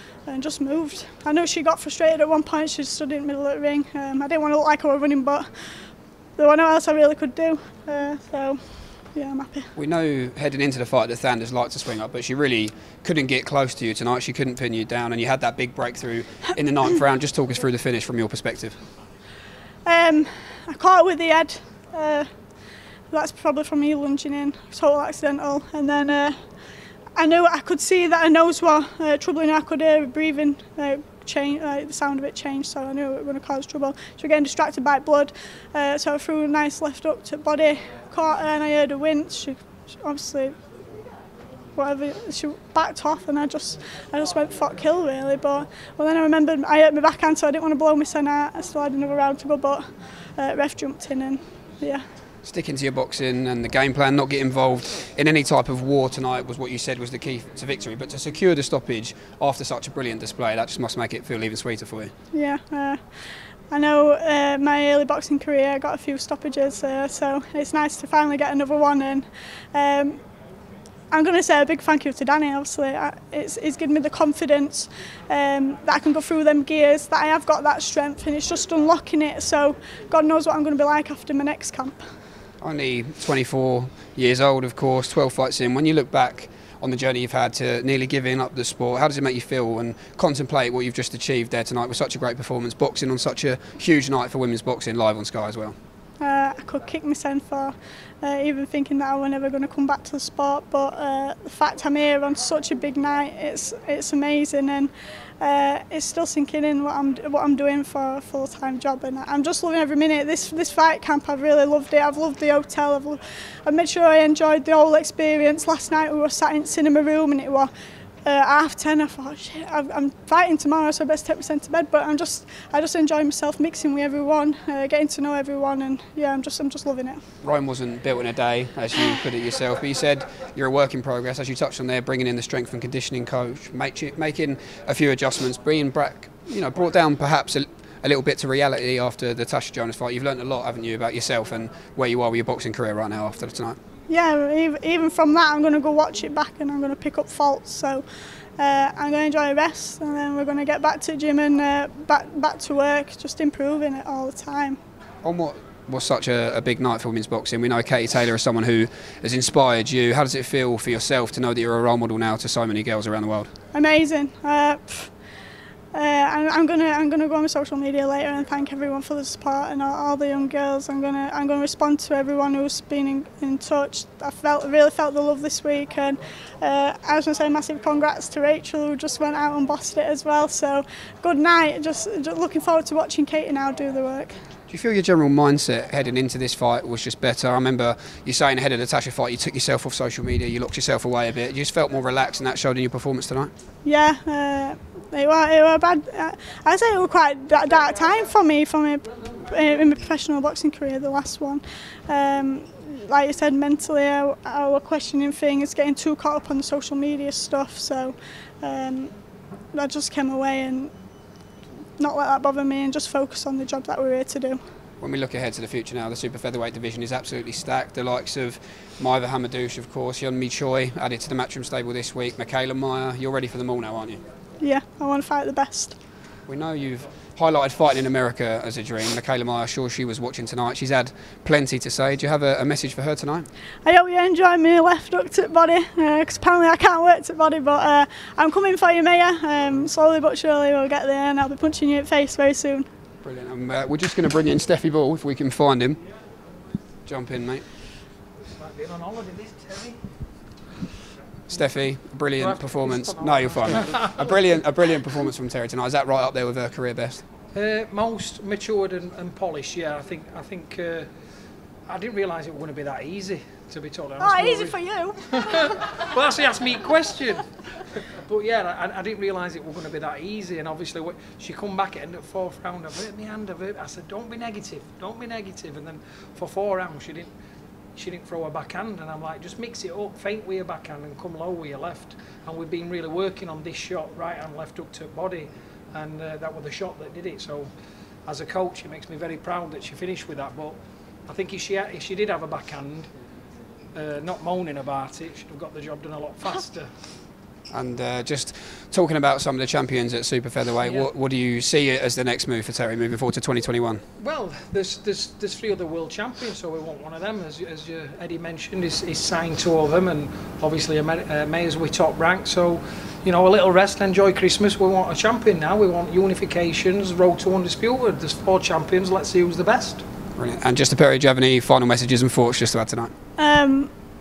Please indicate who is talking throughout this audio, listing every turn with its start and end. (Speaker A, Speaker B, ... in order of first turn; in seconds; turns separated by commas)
Speaker A: 0.3-9.7, Speaker B: 9.8-18.8, Speaker A: 19.9-22.3, Speaker A: 23.1-26.4, Speaker A: 27.2-40.5, Speaker A: 41.7-52.0, Speaker B: 52.4-62.1, Speaker A: 62.3-63.0, Speaker A: 63.7-70.2, Speaker A: 71.1-82.0, Speaker B: 82.6-95.8, Speaker A: 96.2-117.7, Speaker A: 118.2-127.2, Speaker B: 127.4-143.8, Speaker A: 144.1-148.1, Speaker A: 148.6-154.8, Speaker B: 155.2-163.5, Speaker A: 163.7-165.1, Speaker A: 165.9-184.3, Speaker B: 184.7-193.5, Speaker A: 193.8-209.1, Speaker A: 209.7-210.9, Speaker A: 212.0-214.6, Speaker B: 215.0-224.2, Speaker A: 224.6-226.0, Speaker B: 226.5-233.5, Speaker A: 233.8-242.9, Speaker B: 243.2-246.0, Speaker B: 247.1-247.7, Speaker C: 248.4-250.2, Speaker B: 251.5-257.2, Speaker C: 252.4-254.2, Speaker C: 257.5-261.1, Speaker C: 261.9-277.3, Speaker A: 264.2-265.9, Speaker C: 277.9-293.1, Speaker C: 293.9-296.9, Speaker B: 297.7-304.0, Speaker C: 300.8-301.1, Speaker C: 304.2-320.0, Speaker B: 320.4-323.1, Speaker A: 323.4-323.9